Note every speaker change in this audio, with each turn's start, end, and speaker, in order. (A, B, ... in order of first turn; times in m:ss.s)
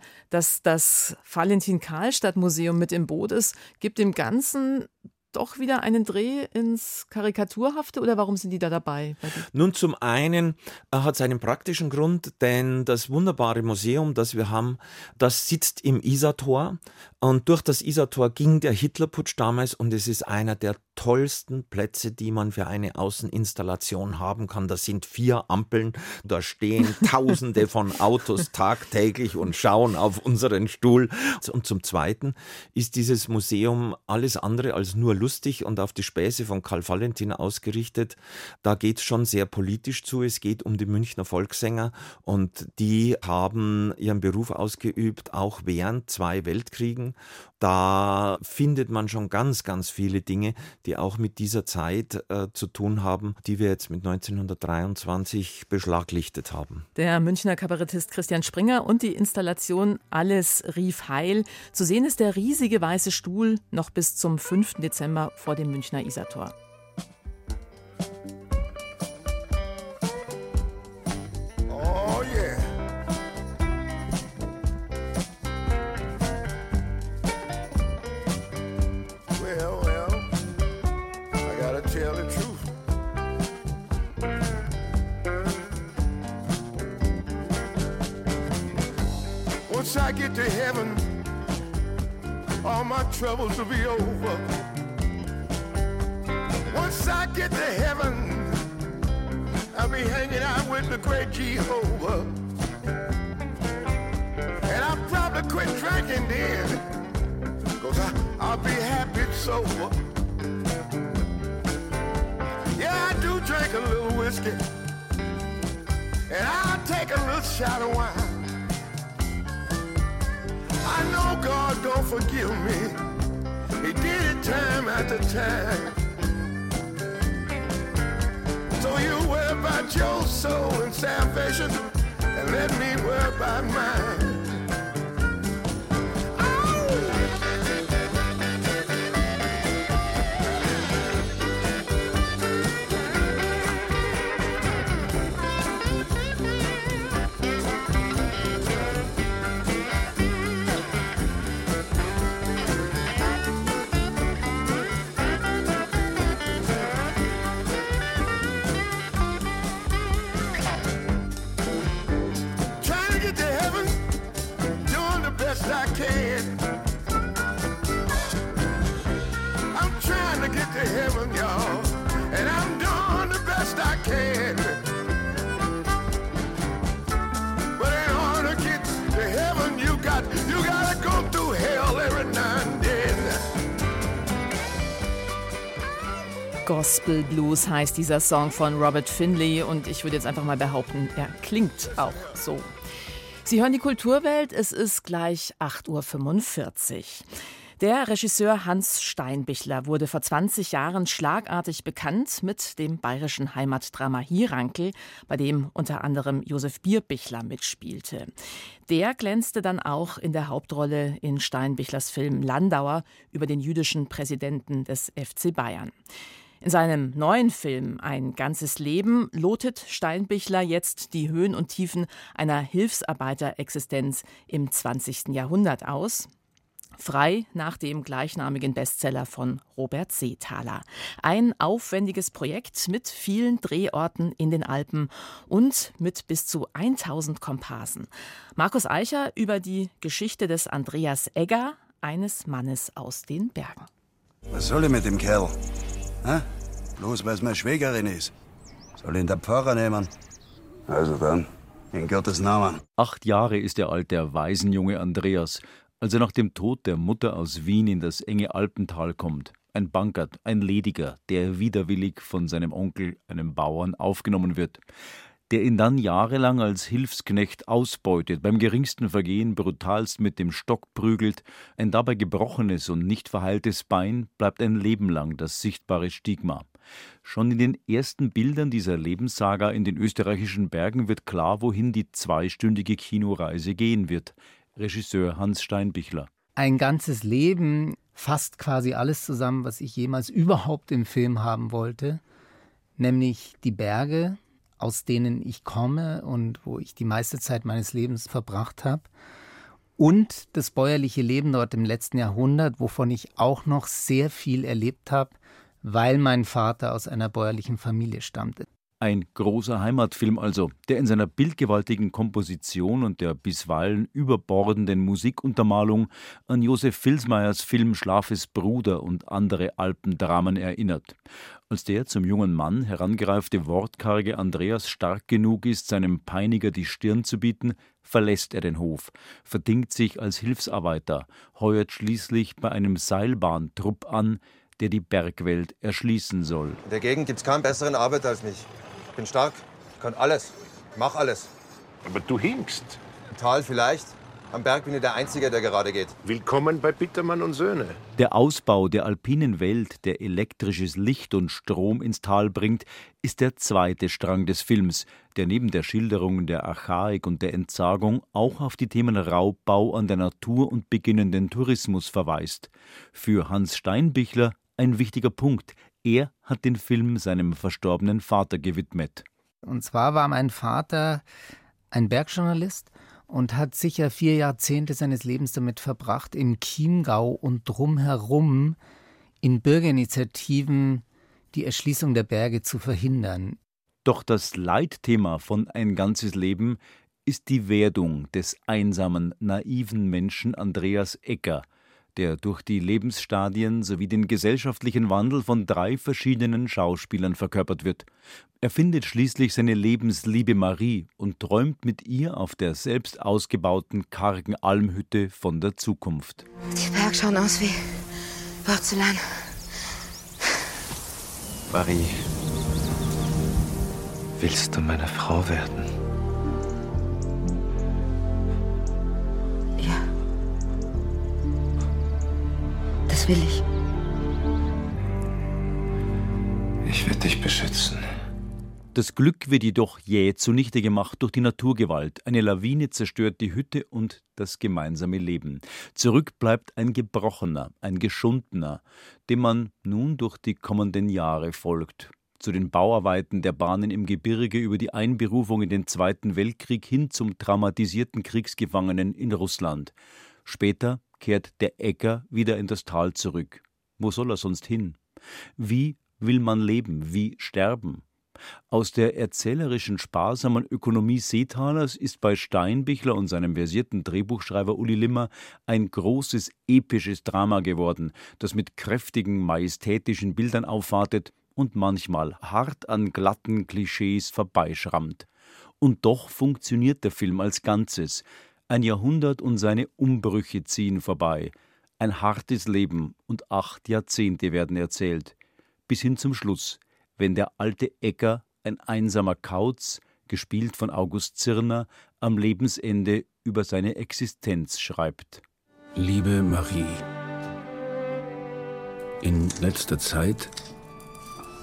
0:00.3-0:09.4 A
0:09.5-0:56.8 B
0:56.9-1:06.5 A
1:11.7-1:12.7 C
1:19.3-1:20.3 C
1:21.4-1:22.7 C
1:29.7-1:31.1 C
1:32.6-1:34.4 C
1:36.7-1:38.6 C
1:39.7-1:42.4 C
1:44.6-1:46.8 C
1:47.8-1:50.0 C
1:52.8-1:54.7 C
1:56.3-1:58.5 C
2:00.8-2:03.0 C
2:03.8-2:06.0 C
2:08.8-2:14.5 C
2:16.4-2:17.3 C
2:42.8-2:44.0 C
2:44.8-2:46.6 C
2:49.7-2:54.8 C
2:57.8-3:03.4 C
3:06.6-3:12.7 A
3:13.4-3:17.2 A
3:17.8-3:28.3 A
3:28.9-3:35.9 A
3:36.6-3:46.3 A
3:47.0-4:03.9 A
4:04.5-4:05.5 D
4:07.0-4:08.3 D
4:09.0-4:10.1 D
4:10.9-4:12.8 D
4:13.0-4:24.8 E
4:25.5-4:36.6 E
4:37.2-4:46.3 E
4:46.6-4:52.2 F
4:53.0-4:59.1 F
5:00.0-5:08.7 F
5:09.0-5:21.1 E
5:21.7-5:36.8 E
5:36.8-5:41.5 G
5:42.0-5:43.0 H
5:43.3-5:46.1 G
5:46.2-5:48.0 H
5:48.2-6:09.2 E
6:09.6-6:11.2 F
6:11.9-6:18.8 F
6:19.4-6:23.6 F
6:24.0-6:38.0 E
6:38.6-6:46.4 E
6:46.7-6:48.0 I
6:48.6-6:49.2 I
6:51.7-6:52.2 J
6:54.4-6:55.9 J
6:59.8-7:00.0 I
7:03.1-7:03.6 I
7:06.8-7:08.0 J
7:08.9-7:29.9 E
7:30.4-7:35.0 E
7:35.6-7:38.0 E
7:38.7-7:55.2 E
7:55.8-8:05.3 E
8:05.9-8:15.4 E
8:15.9-8:17.0 K
8:19.2-8:20.5 K